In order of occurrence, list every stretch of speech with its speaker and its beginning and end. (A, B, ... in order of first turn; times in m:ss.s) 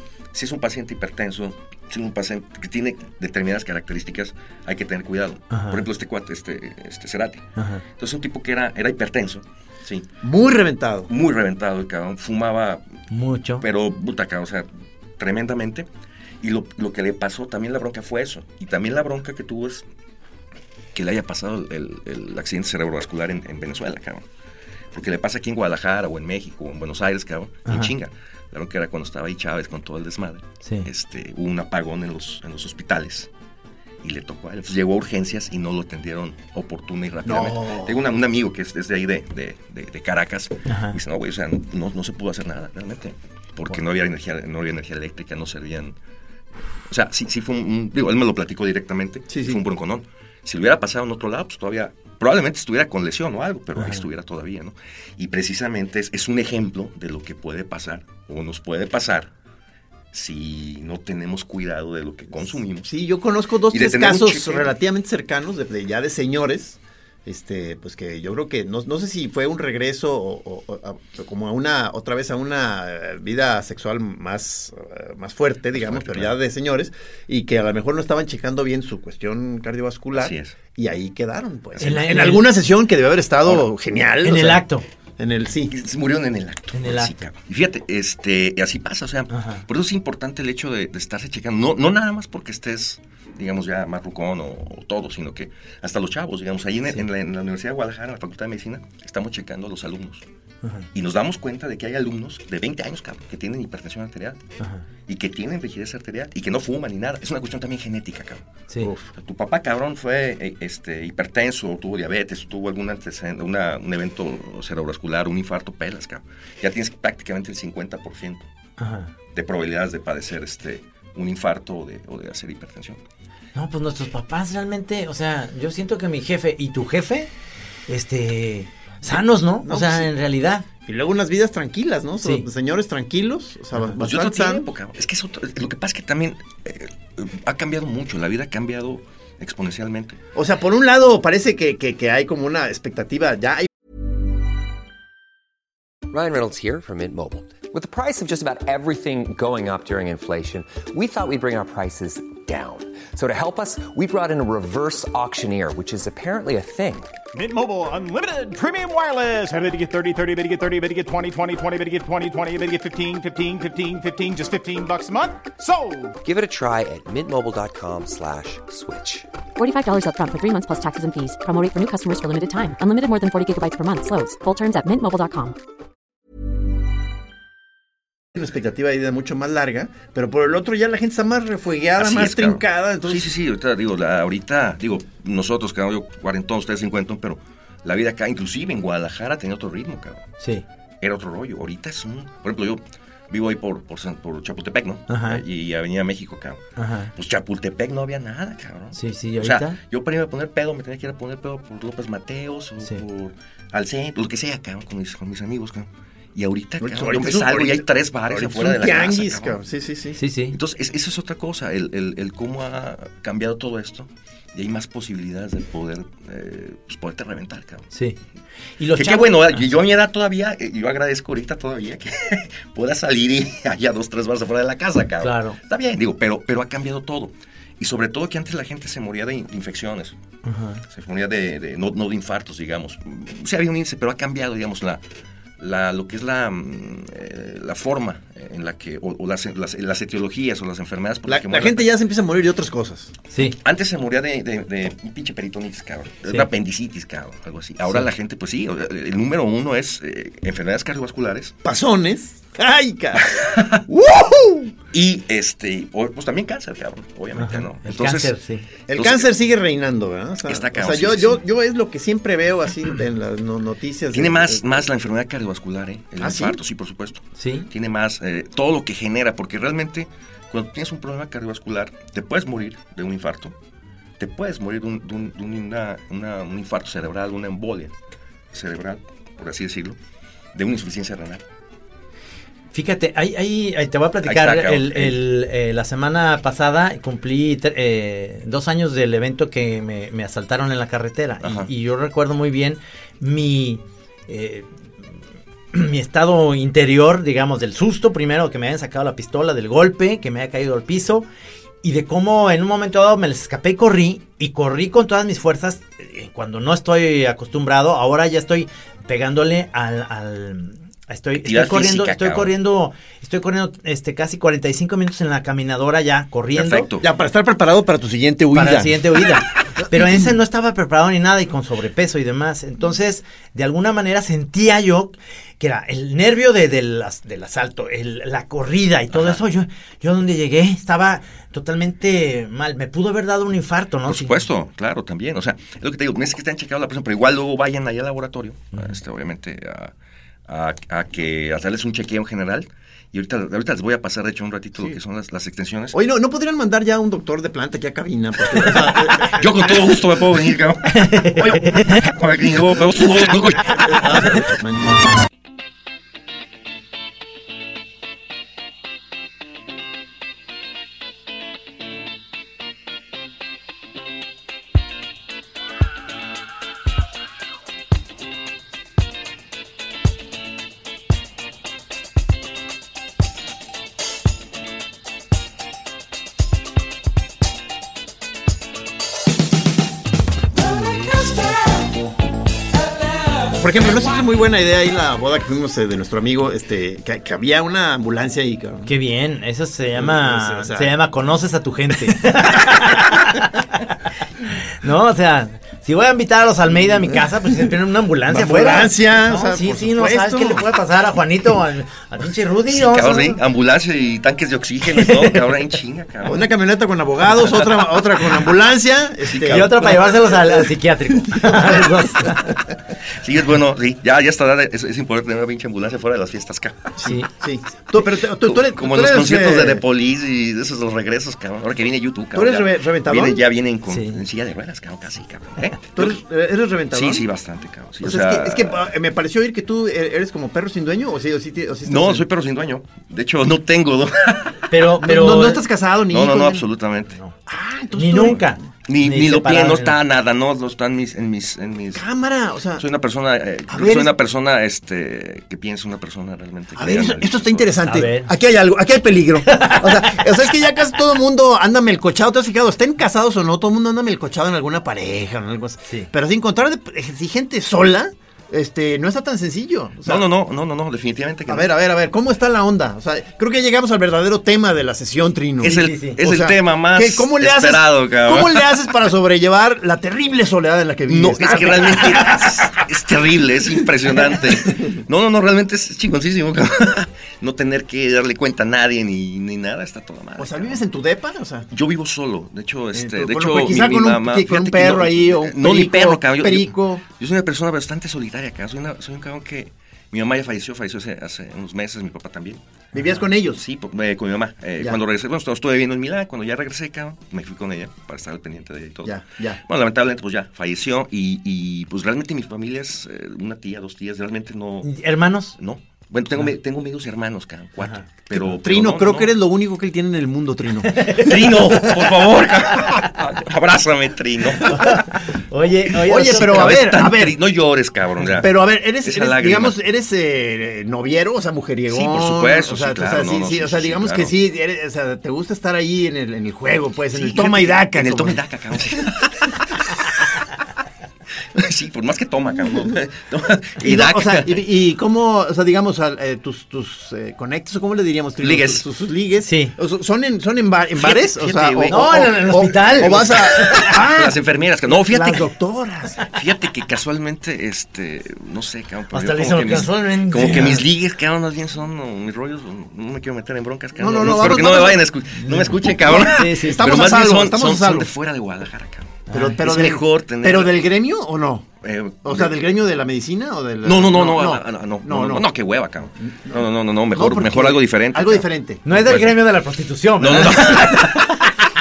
0:00.3-0:07.5 A
0:05.5-0:05.8 B
0:07.6-0:07.8 B
0:08.0-0:10.1 A
0:10.2-0:11.1 C
0:11.1-0:12.8 A
0:13.1-0:13.6 B
0:13.6-0:14.7 A
0:15.2-0:15.9 A
0:16.4-0:19.8 A
0:21.0-0:24.2 A
0:24.9-0:33.3 A
0:27.7-0:27.9 B
0:34.0-0:46.0 A
0:37.3-0:38.0 C
0:40.7-0:41.0 B
0:46.9-0:59.3 A
0:49.3-0:49.6 C
0:53.8-0:54.0 B
1:00.1-1:02.9 A
1:02.9-1:24.6 C
1:03.7-1:04.7 A
1:15.7-1:16.3 A
1:20.1-1:20.6 A
1:21.8-1:22.5 B
1:24.2-1:24.8 B
1:25.2-1:25.7 C
1:25.7-1:40.2 A
1:26.7-1:27.2 B
1:29.3-1:29.6 B
1:40.9-1:44.4 A
1:45.1-1:48.4 A
1:49.1-1:58.5 A
1:58.8-1:59.1 B
1:59.3-2:03.0 A
2:03.6-2:07.3 B
2:07.9-2:10.6 B
2:09.6-2:10.1 C
2:10.9-2:14.7 C
2:14.0-2:20.2 A
2:20.4-2:23.7 C
2:26.1-2:37.2 D
2:37.3-2:46.2 E
2:46.2-2:49.3 D
2:49.6-2:55.6 F
2:58.4-3:03.3 C
3:02.0-3:10.3 A
3:10.4-3:10.6 B
3:11.0-3:16.6 A
3:15.1-3:15.4 B
3:16.8-3:17.1 B
3:17.2-3:29.6 A
3:18.9-3:19.8 B
3:26.8-3:30.2 C
3:30.2-3:30.6 B
3:30.5-3:37.9 A
3:38.8-3:39.8 B
3:39.0-3:50.2 A
3:45.2-3:45.6 B
3:50.4-3:50.8 B
3:50.9-3:55.0 A
3:55.6-4:01.9 A
4:01.3-4:03.1 C
4:03.3-4:03.6 B
4:03.4-4:11.6 A
4:11.6-4:14.7 C
4:13.3-4:13.8 A
4:14.9-4:18.3 A
4:17.4-4:18.7 B
4:18.9-4:24.9 C
4:18.9-4:19.3 A
4:20.5-4:21.4 A
4:24.1-4:33.5 A
4:26.2-4:26.6 C
4:27.4-4:27.7 B
4:34.2-4:37.9 A
4:38.5-4:40.0 A
4:40.6-4:41.4 A
4:42.7-4:54.7 B
4:44.2-4:45.2 A
4:51.4-4:51.7 A
4:55.7-5:01.3 B
5:01.8-5:16.9 B
5:11.4-5:12.5 A
5:16.5-5:17.1 A
5:17.0-5:19.0 C
5:18.5-5:34.4 B
5:20.0-5:20.3 C
5:29.1-5:29.4 A
5:34.1-5:39.9 A
5:38.7-5:39.0 B
5:40.5-5:46.0 A
5:45.9-5:50.0 C
5:48.5-5:54.5 A
5:51.0-5:52.0 B
5:53.7-5:55.0 C
6:23.6-6:28.9 C
6:28.9-6:33.9 B
6:30.0-6:30.9 C
6:32.3-6:33.0 C
6:34.7-6:43.4 B
6:38.3-6:40.6 C
6:42.7-6:46.5 A
6:44.9-6:45.4 B
6:46.3-6:50.7 C
6:47.4-6:47.9 A
6:49.3-6:50.0 A
6:49.4-6:52.6 B
6:51.4-6:51.9 C
6:53.2-6:56.9 A
6:57.0-6:59.8 C
6:57.0-6:57.3 B
6:58.0-7:06.2 A
7:02.3-7:03.4 C
7:03.9-7:04.2 B
7:06.0-7:07.3 C
7:06.9-7:08.9 A
7:08.0-7:12.2 C
7:11.8-7:14.7 A
7:14.7-7:15.6 B
7:15.0-7:16.6 C
7:16.1-7:17.2 A
7:17.5-7:18.6 C
7:17.9-7:20.0 B
7:18.9-7:22.0 A
7:21.9-7:22.8 C
7:22.8-7:27.8 A
7:23.7-7:24.1 C
7:26.8-7:40.2 C
7:27.8-7:28.3 B
7:29.5-7:30.2 B
7:40.0-7:41.7 A
7:41.5-7:52.8 C
7:45.6-7:48.7 A
7:45.7-7:46.2 B
7:51.1-8:00.8 A
7:54.2-7:54.8 C
8:00.4-8:01.7 C
8:01.7-8:12.6 A
8:03.0-8:07.0 C
8:12.9-8:13.6 C
8:13.4-8:24.9 A
8:19.0-8:19.6 C
8:24.8-8:25.6 B
8:25.6-8:29.4 A
8:28.3-8:31.5 C
8:30.9-8:31.6 B
8:31.2-8:35.0 A
8:34.7-8:36.9 B
8:36.1-8:37.4 C
8:36.1-8:39.8 A
8:38.4-8:48.4 C
8:41.9-8:44.3 A
8:47.1-8:50.1 A
8:51.6-8:54.6 A
8:53.8-9:04.4 C
8:58.4-8:58.8 A
8:59.4-8:59.7 B
9:01.0-9:05.5 A
9:01.9-9:03.9 B
9:04.9-9:06.2 C
9:06.3-9:20.9 A
9:09.1-9:10.8 B
9:14.0-9:18.1 C
9:16.2-9:16.8 B
9:19.3-9:19.6 B
9:19.3-9:21.7 C
9:21.8-9:22.6 A
9:22.2-9:25.5 C
9:23.8-9:29.4 A
9:26.3-9:26.6 C
9:27.1-9:28.8 C
9:28.9-9:31.5 B
9:30.2-9:31.5 A